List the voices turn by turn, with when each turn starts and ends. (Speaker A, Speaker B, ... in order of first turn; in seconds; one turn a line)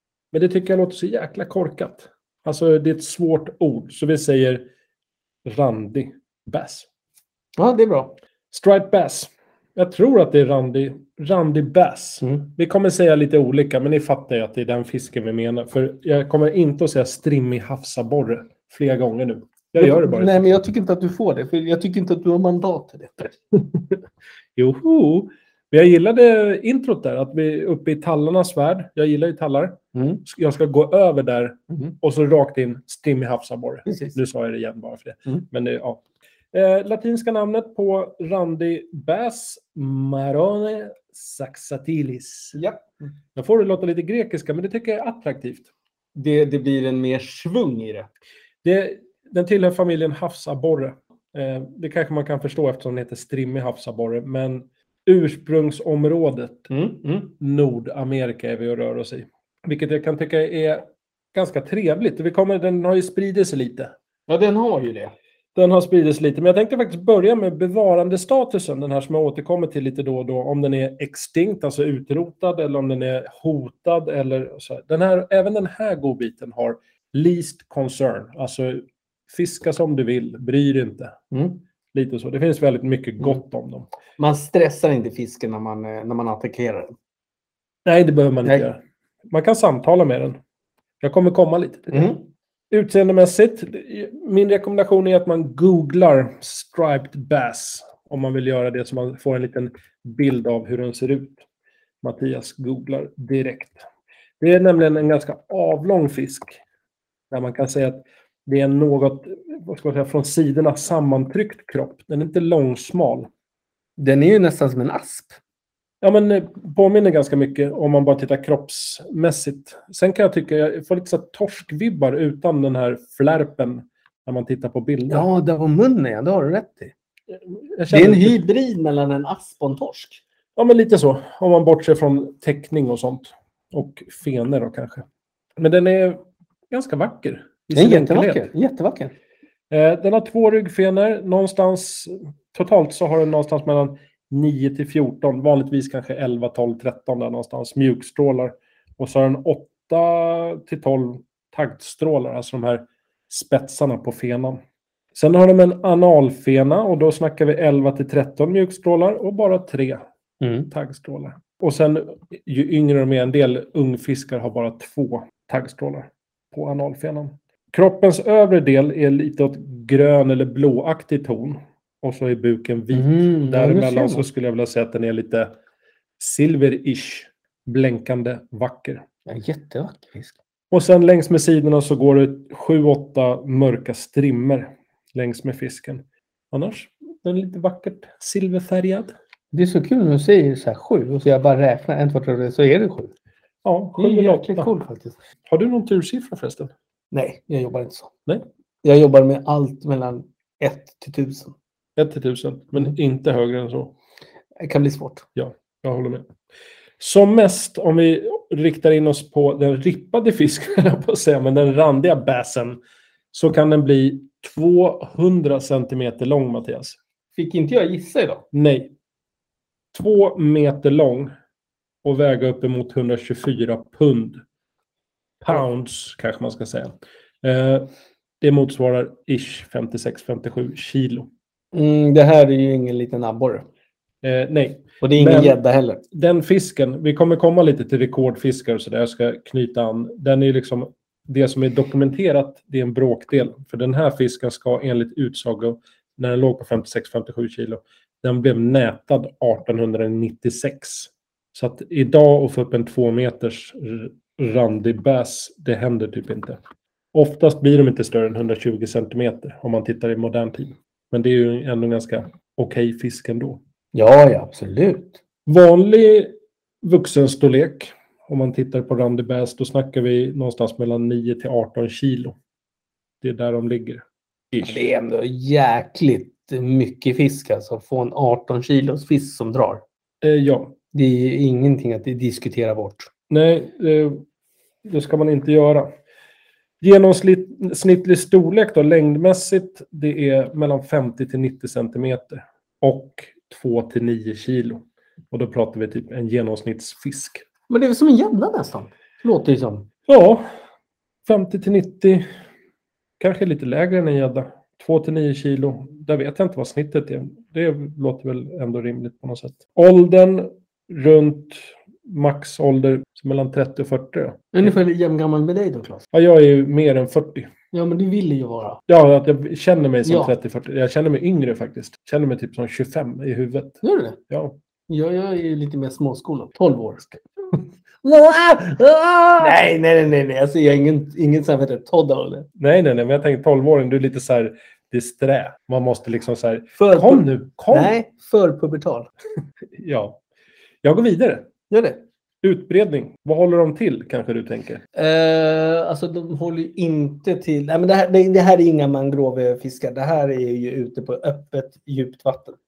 Speaker A: 0.3-4.7
Speaker A: 5.5-6.9
Speaker B: 7.6-8.2
Speaker A: 8.5-20.4
Speaker B: 19.8-23.4
Speaker A: 24.6-42.6
Speaker B: 29.9-30.2
Speaker B: 33.9-34.2
Speaker B: 42.5-42.9
Speaker A: 43.4-45.7
Speaker B: 46.1-48.1
Speaker A: 48.6-56.7
Speaker B: 56.7-57.3
Speaker A: 57.4-63.9
Speaker B: 64.3-65.1
Speaker A: 65.5-81.2
Speaker B: 81.3-81.6
Speaker A: 81.9-83.9
Speaker B: 84.2-87.0
Speaker A: 87.8-90.4
Speaker A: 91.0-92.1
Speaker B: 91.9-92.2
Speaker A: 92.7-101.4
Speaker A: 102.0-103.8
Speaker A: 104.4-106.6
Speaker A: 107.3-113.3
Speaker B: 114.0-115.4
Speaker A: 116.0-125.3
Speaker B: 125.1-126.9
Speaker A: 127.4-128.4
Speaker B: 127.9-130.2
Speaker A: 130.6-135.1
Speaker A: 135.6-138.5
Speaker B: 137.7-139.1
Speaker A: 139.7-154.6
Speaker A: 155.2-160.0
Speaker B: 160.4-160.7
Speaker A: 160.7-175.5
Speaker B: 172.9-174.2
Speaker A: 176.2-179.1
Speaker B: 179.3-180.3
Speaker A: 180.7-189.1
Speaker B: 189.5-193.1
Speaker A: 193.6-194.7
Speaker B: 194.0-195.2
Speaker A: 195.5-196.7
Speaker B: 197.1-198.1
Speaker B: 198.8-201.6
Speaker A: 202.0-203.9
Speaker B: 204.6-205.2
Speaker A: 205.4-206.3
Speaker A: 207.0-212.8
Speaker A: 213.3-217.0
Speaker B: 217.4-218.4
Speaker A: 218.5-218.9
Speaker A: 219.9-221.3
Speaker A: 222.0-224.4
Speaker A: 225.4-227.9
Speaker A: 228.4-231.3
Speaker B: 231.7-233.7
Speaker A: 234.2-235.6
Speaker B: 235.0-236.0
Speaker A: 236.1-256.6
Speaker A: 257.1-263.6
Speaker B: 263.9-265.2
Speaker A: 265.5-272.4
Speaker A: 273.2-274.8
Speaker B: 274.6-279.8
Speaker A: 280.2-280.8
Speaker B: 280.9-283.1
Speaker A: 283.3-284.2
Speaker A: 284.9-285.9
Speaker A: 286.8-297.4
Speaker B: 297.7-299.9
Speaker A: 300.1-300.4
Speaker A: 301.3-302.3
Speaker A: 303.2-314.7
Speaker B: 314.5-316.1
Speaker A: 316.1-317.5
Speaker B: 317.7-318.8
Speaker A: 318.9-324.6
Speaker B: 320.1-320.3
Speaker B: 323.8-324.2
Speaker B: 324.9-327.2
Speaker A: 328.0-329.6
Speaker B: 329.4-332.5
Speaker A: 332.6-337.9
Speaker B: 336.8-339.1
Speaker A: 339.8-340.2
Speaker A: 340.8-341.5
Speaker B: 341.7-342.0
Speaker A: 342.4-344.8
Speaker B: 344.9-352.6